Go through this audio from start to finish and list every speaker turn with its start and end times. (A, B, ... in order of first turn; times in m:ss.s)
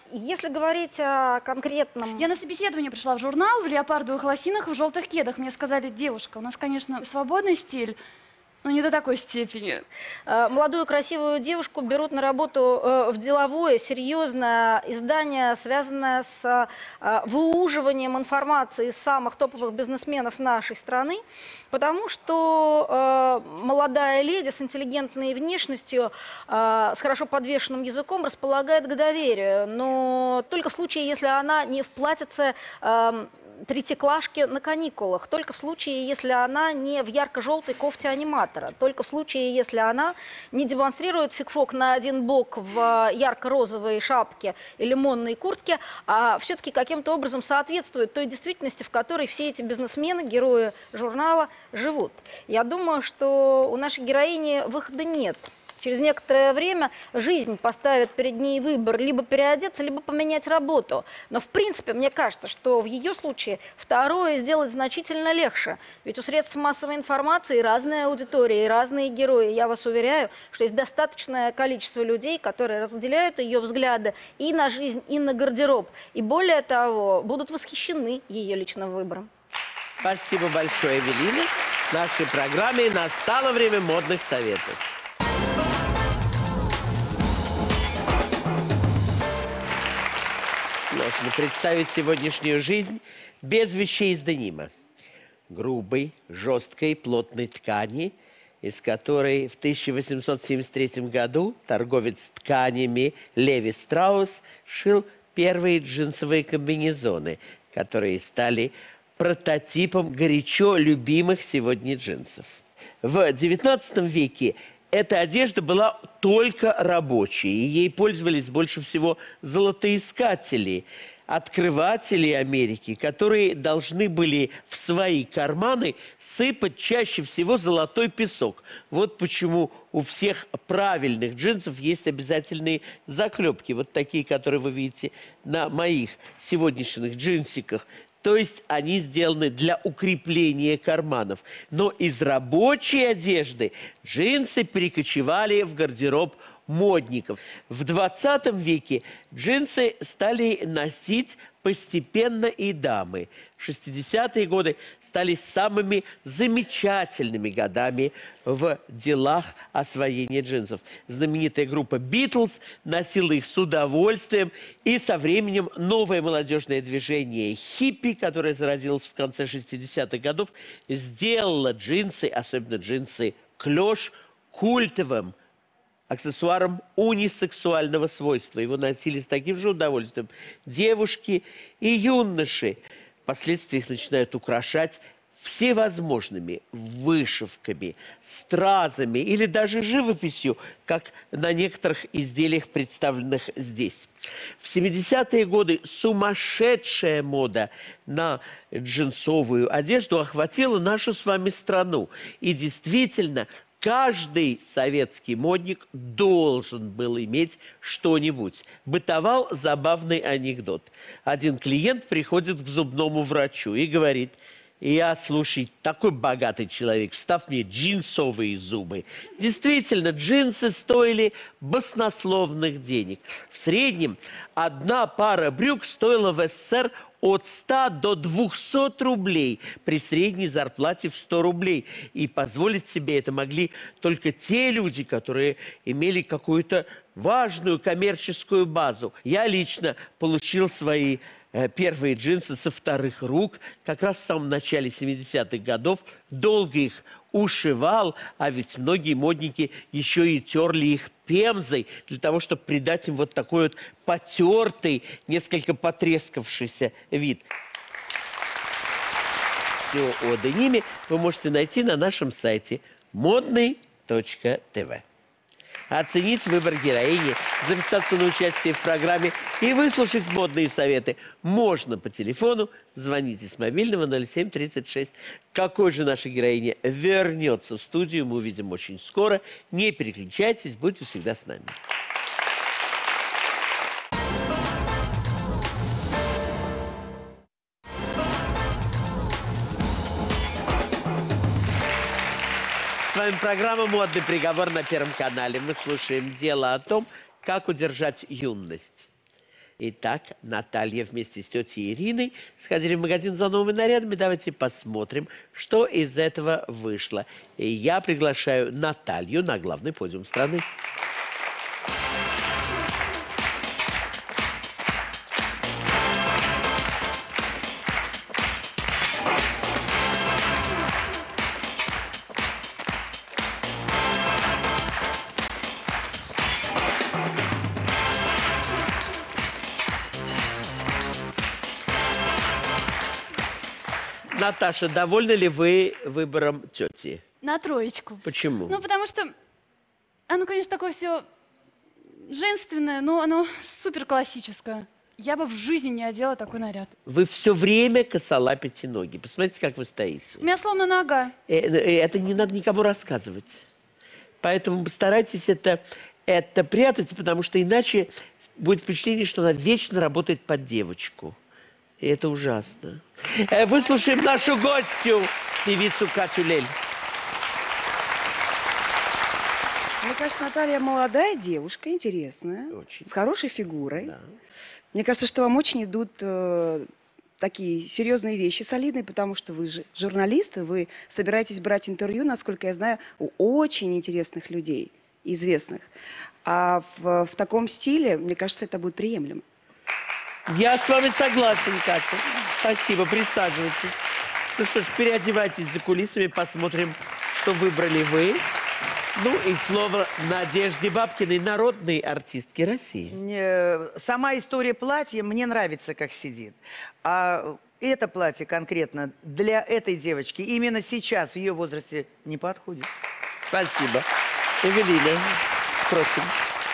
0:00.1-0:02.3 A
0:02.2-0:08.0 B
0:08.6-0:09.8 B
0:10.3-0:21.2 A
0:21.7-1:19.3 A
1:20.0-1:24.8 C
1:30.9-1:34.7 C
1:35.5-2:55.4 C
2:56.1-4:17.4 C
4:19.7-4:25.0 C
4:25.9-4:41.8 C
4:53.0-4:59.1 C
4:59.8-5:10.7 C
5:34.3-5:37.2 C
5:37.4-5:39.3 B
5:38.2-5:38.8 C
5:40.3-5:41.2 B
5:42.3-5:46.9 B
5:47.0-5:50.4 C
5:50.4-5:51.3 B
5:51.5-5:53.6 C
5:54.4-6:01.4 C
6:02.0-6:06.7 C
6:10.0-6:14.1 D
6:12.7-6:13.1 C
6:14.9-6:16.9 D
6:17.4-6:25.9 D
6:26.4-6:29.4 D
6:30.5-6:38.4 C
6:39.1-6:43.2 C
6:43.1-6:52.9 E
6:53.5-6:54.1 C
6:54.6-6:56.4 C